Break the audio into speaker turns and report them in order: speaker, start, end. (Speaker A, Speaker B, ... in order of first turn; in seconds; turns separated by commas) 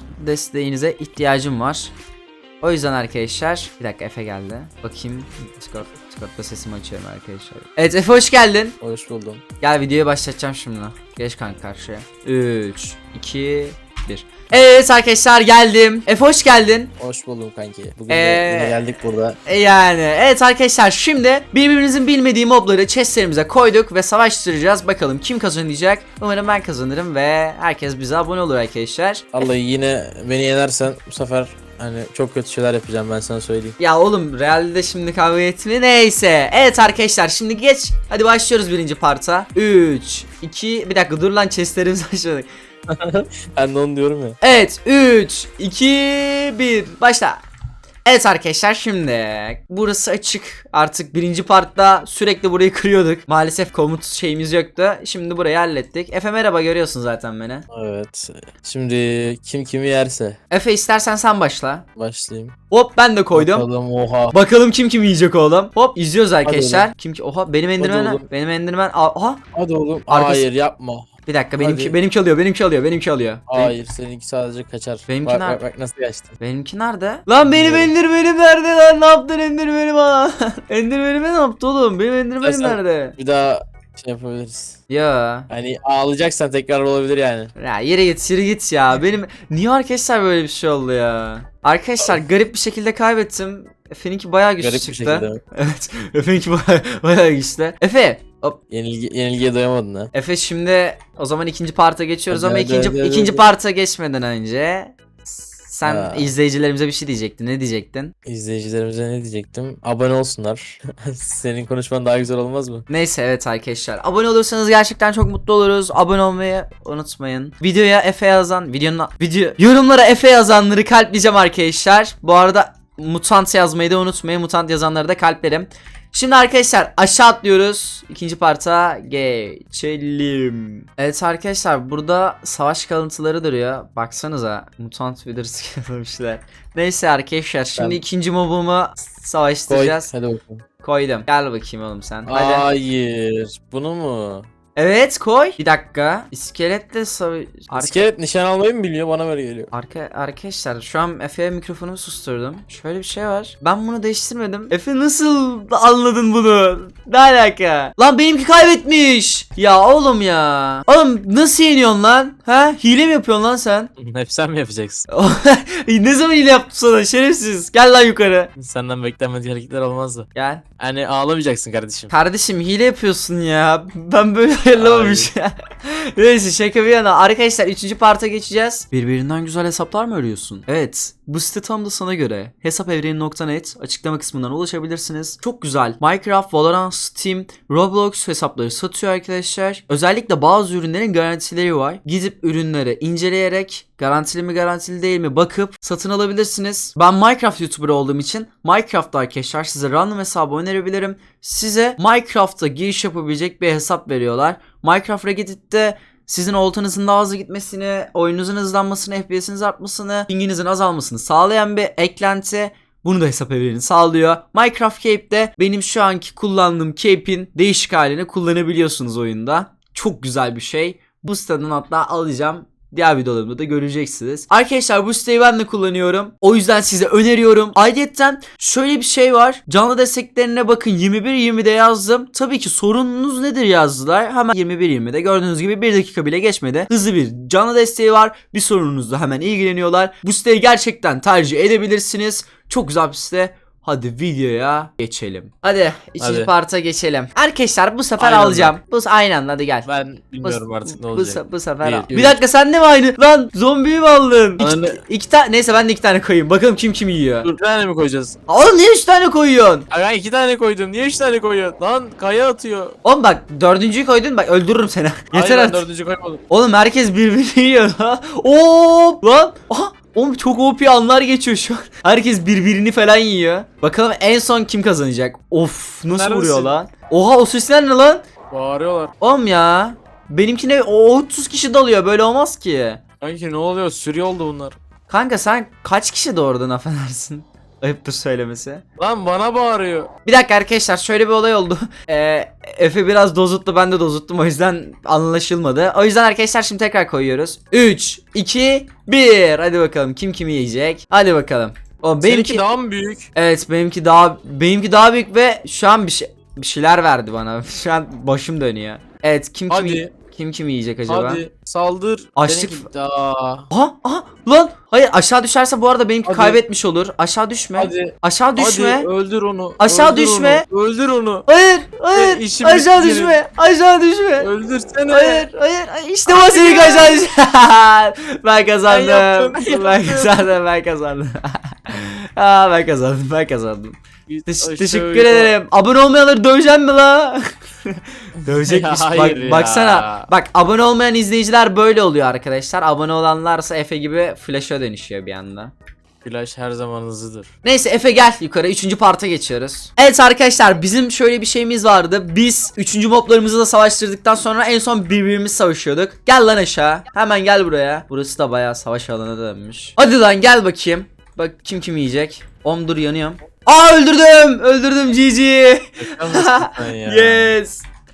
Speaker A: 0.1-1.9, Speaker A: 2.6-8.8, Speaker B: 8.8-9.4, Speaker A: 9.6-16.9, Speaker B: 17.0-19.4, Speaker A: 18.1-18.8, Speaker A: 19.4-29.3, Speaker B: 29.3-33.8, Speaker A: 33.8-42.5, Speaker B: 42.9-44.4, Speaker A: 44.4-47.4, Speaker A: 48.0-57.6, Speaker B: 57.7-60.4, Speaker A: 60.5-61.8, Speaker B: 62.0-62.5, Speaker A: 62.7-63.6, Speaker B: 63.3-64.3, Speaker A: 64.3-69.4, Speaker B: 66.4-66.9, Speaker B: 67.8-68.2, Speaker B: 69.5-71.1, Speaker A: 70.1-70.5, Speaker A: 71.3-73.7, Speaker B: 71.6-72.0, Speaker B: 73.5-76.4, Speaker A: 75.1-75.6, Speaker A: 76.4-83.2, Speaker B: 77.4-77.9, Speaker B: 82.4-84.8, Speaker A: 84.9-85.5, Speaker B: 85.5-87.5, Speaker A: 87.6-98.6, Speaker B: 94.6-95.4, Speaker B: 98.7-100.1, Speaker A: 100.1-108.1, Speaker B: 102.3-103.4, Speaker B: 105.8-106.3, Speaker B: 108.2-112.8, Speaker A: 112.9-140.1, Speaker B: 139.7-140.6, Speaker A: 140.8-142.7, Speaker B: 142.2-144.5, Speaker A: 144.8-148.1, Speaker B: 147.8-149.7, Speaker A: 149.7-163.9, Speaker B: 164.0-165.1, Speaker A: 165.1-168.5, Speaker B: 168.6-170.3, Speaker A: 170.3-170.6, Speaker B: 170.8-172.1, Speaker A: 172.1-249.9, Speaker B: 174.7-175.3, Speaker B: 246.2-246.5, Speaker B: 248.2-248.8, Speaker B: 249.8-252.4, Speaker A: 250.4-257.5, Speaker B: 254.6-255.0, Speaker B: 257.4-258.4, Speaker A: 258.5-259.9, Speaker B: 259.9-262.9, Speaker A: 263.0-265.9, Speaker B: 265.3-266.4, Speaker A: 266.5-278.2, Speaker B: 276.1-276.7, Speaker B: 278.5-279.1, Speaker A: 279.2-283.0, Speaker B: 283.2-284.8, Speaker A: 285.1-288.8, Speaker B: 289.0-290.1, Speaker A: 290.2-302.6, Speaker B: 302.2-303.3, Speaker A: 303.3-311.4, Speaker B: 309.7-310.1, Speaker B: 311.1-313.7, Speaker A: 312.4-312.9, Speaker A: 313.7-319.1, Speaker B: 316.2-316.6, Speaker B: 317.8-321.4, Speaker A: 319.8-320.6, Speaker A: 321.5-324.5, Speaker B: 322.1-323.4, Speaker B: 324.4-325.5, Speaker A: 325.1-345.7, Speaker B: 326.3-327.2, Speaker B: 328.9-330.5, Speaker B: 334.3-335.5, Speaker B: 338.4-340.3, Speaker B: 346.2-347.5, Speaker A: 347.6-367.9, Speaker B: 366.0-367.6